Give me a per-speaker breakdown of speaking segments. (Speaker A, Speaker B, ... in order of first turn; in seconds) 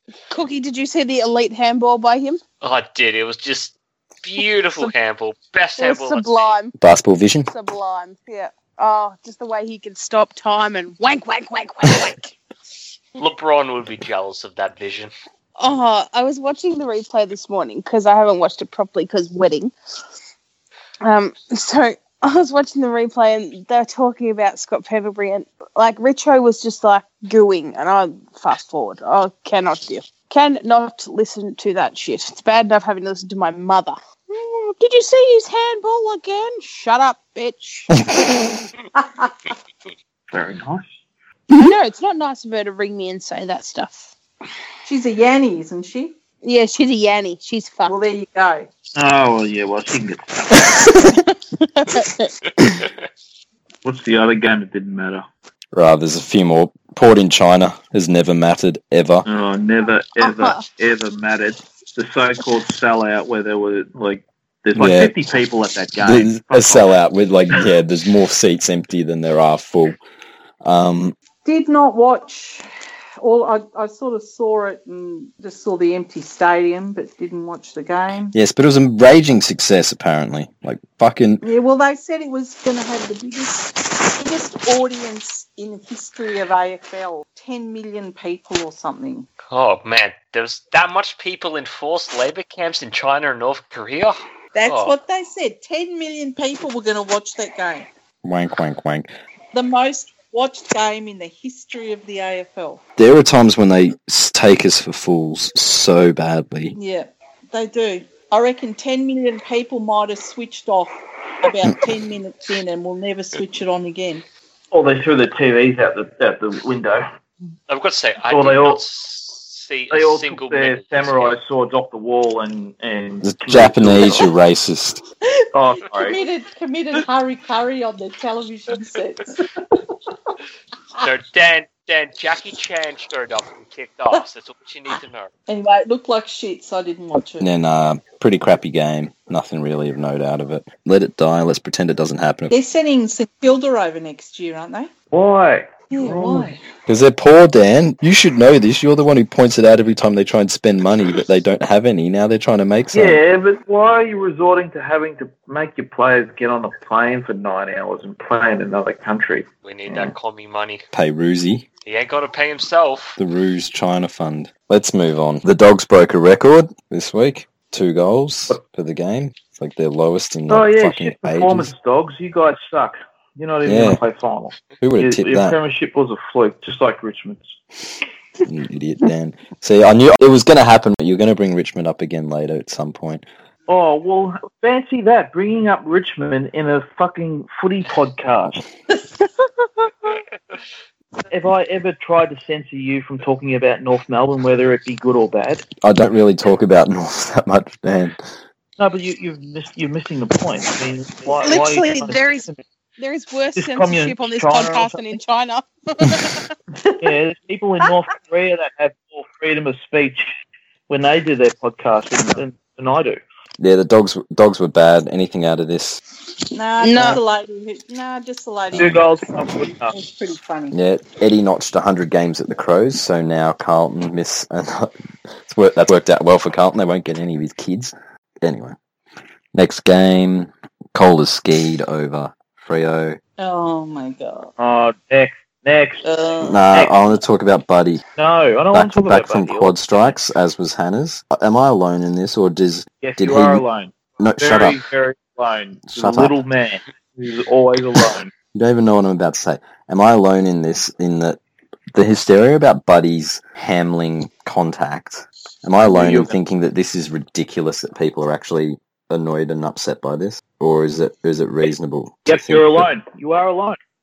Speaker A: 0.3-2.4, 5.8-6.7, 7.5-12.4, 15.6-19.7, 21.0-38.0, 41.5-44.1, 46.4-48.0, 51.6-52.3, 60.2-60.6, 201.4-206.5, 216.8-217.2
Speaker B: 2.6-6.6, 13.2-15.1, 89.5-95.0, 117.7-121.4, 131.0-135.3, 159.6-160.8, 161.8-163.2
Speaker C: 6.8-7.5, 55.7-59.2, 64.8-65.2, 66.0-70.0, 70.6-71.2, 78.3-81.4, 98.2-99.1, 103.0-106.8, 123.2-125.0, 137.4-142.5, 146.9-153.2, 160.9-161.7, 163.2-171.7, 173.7-174.0, 174.8-175.6, 178.4-183.2, 195.8-198.2, 213.6-216.0, 218.7-219.0, 220.7-228.8, 229.5-233.2, 236.4-238.0, 238.7-243.6, 244.2-244.8, 245.9-246.4, 248.5-251.4, 251.9-262.9
Speaker D: 39.0-39.4, 44.9-46.1, 47.9-48.7, 71.4-72.7, 73.2-78.3, 81.4-89.3, 94.5-97.9, 99.5-102.8, 106.7-114.2, 125.4-129.8, 135.5-137.5, 142.5-144.9, 145.9-146.6, 189.0-189.9, 216.5-220.8, 233.4-234.5, 236.0-236.6
Speaker E: 40.3-40.9, 49.0-50.9, 53.8-55.3, 59.2-67.0, 114.7-117.1, 118.3-118.8, 119.9-124.3, 125.5-126.2, 145.1-146.6, 152.9-160.1, 170.5-177.6, 183.7-188.6, 191.3-195.7, 198.8-202.6, 203.6-205.1, 207.0-210.3, 210.9-213.2, 218.7-219.9, 234.6-236.0, 238.2-239.8, 243.0-248.3, 255.8-256.4, 262.3-263.8